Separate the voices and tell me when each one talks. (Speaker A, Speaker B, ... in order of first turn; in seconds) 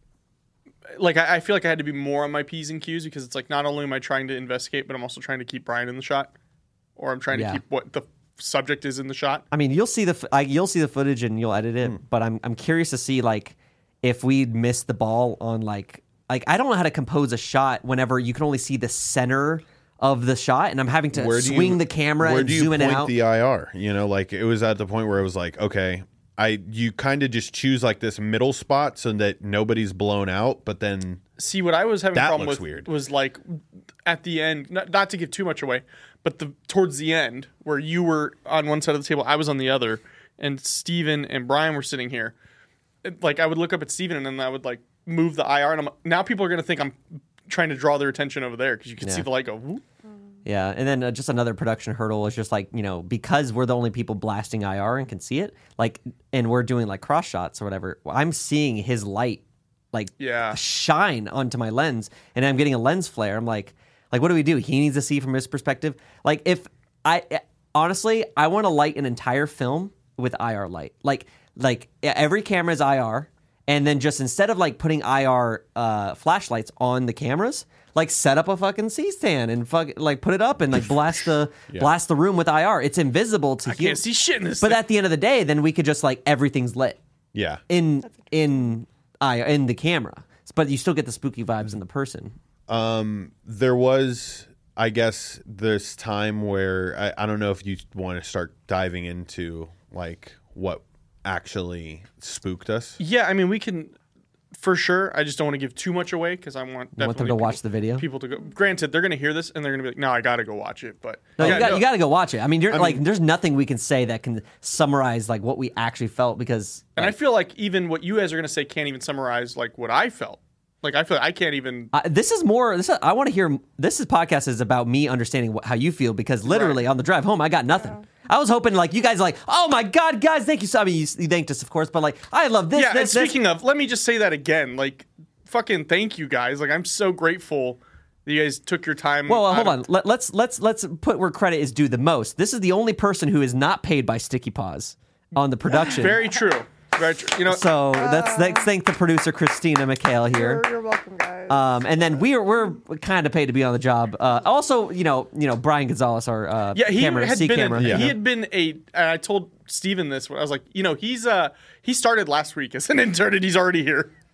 Speaker A: 0.9-6.3, 7.0-9.4, 31.4-42.3, 43.0-49.8, 60.2-60.6, 83.7-84.8, 103.0-103.9, 104.5-111.8, 117.0-121.9, 126.5-126.8, 132.7-139.8, 145.7-147.7, 156.7-164.1
Speaker B: 7.3-7.6, 9.5-23.1, 50.4-84.0, 84.6-87.0, 87.7-92.3, 107.0-108.0, 111.4-117.2, 121.9-133.3, 139.3-146.2, 147.4-150.6, 151.5-158.2
Speaker C: 21.1-31.2, 32.1-32.9, 87.3-87.6, 92.7-103.0, 111.4-111.8, 112.7-113.0, 157.8-158.2
Speaker D: 127.7-128.0, 147.9-148.7, 150.3-151.7